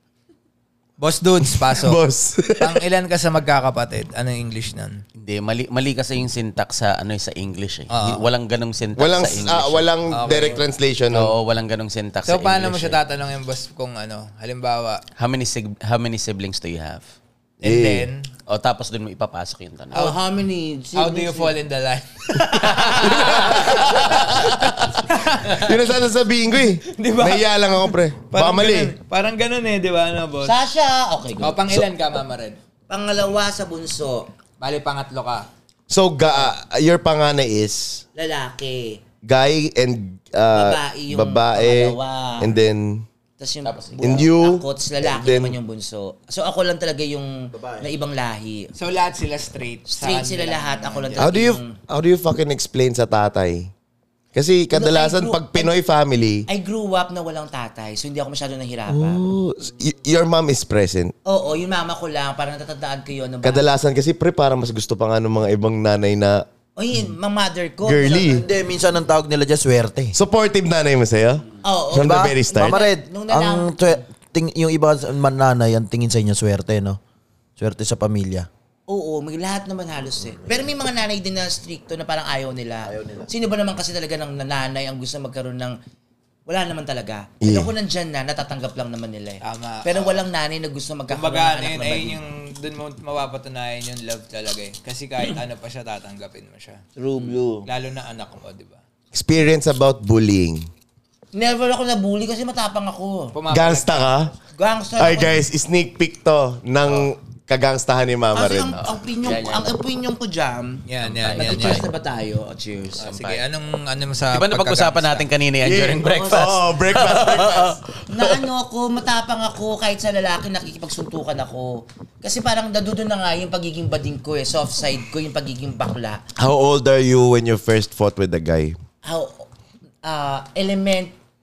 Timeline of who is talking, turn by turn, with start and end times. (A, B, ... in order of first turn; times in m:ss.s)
0:01.0-0:02.0 A
0:01.5-0:02.8 B
0:02.6-0:05.0 A
0:05.2-0:09.9 C
0:07.9-0:08.2 A
0:09.0-0:11.3 B
0:10.1-0:10.6 A
0:11.1-0:13.0 C
0:12.2-0:15.0 A
0:15.2-0:17.0 C
0:17.6-0:18.3 A
0:17.6-0:18.1 B
0:18.5-0:20.1 C
0:19.9-0:21.5 D
0:20.9-0:25.9 A
0:22.6-0:24.9 B
0:25.4-0:28.9 B
0:26.6-0:30.6 A
0:30.4-0:31.6 D
0:31.4-0:32.6 A
0:32.9-0:34.3 D
0:34.6-0:35.5 A
0:35.9-0:38.0 B
0:38.2-0:39.0 D
0:39.2-0:43.0 B
0:40.5-0:42.5 D
0:43.4-0:48.7 D
0:43.6-0:44.0 C
0:44.0-0:45.6 B
0:47.5-0:47.9 E
0:48.8-0:51.3 A
0:49.9-0:51.8 D
0:51.2-0:53.7 B
0:54.3-0:56.5 B
0:54.7-0:55.7 D
0:56.5-0:59.2 D
0:58.9-1:01.1 B
1:01.2-1:03.6 D
1:03.4-1:06.4 B
1:06.8-1:08.4 D
1:07.8-1:08.4 B
1:08.2-1:10.2 E
1:10.1-1:12.9 B
1:11.6-1:14.0 D
1:11.9-1:17.0 E
1:17.6-1:18.5 E
1:18.9-1:25.8 D
1:22.8-1:23.3 E
1:26.5-1:32.2 D
1:27.4-1:27.7 B
1:29.4-1:30.2 A
1:31.1-1:36.8 A
1:37.0-1:37.7 D
1:37.6-1:38.8 A
1:39.1-1:40.7 B
1:41.3-1:43.4 D
1:43.3-1:44.3 A
1:43.5-1:44.3 B
1:44.5-1:45.4 D
1:45.0-1:48.8 B
1:48.3-1:53.1 D
1:48.7-1:49.7 C
1:50.9-1:51.9 A
1:51.0-1:51.9 C
1:53.0-1:53.4 C
1:53.1-1:55.2 A
1:54.3-1:58.4 C
1:55.6-1:57.8 B
1:58.1-2:06.2 D
2:06.4-2:08.8 B
2:09.0-2:09.5 D
2:10.0-2:11.1 D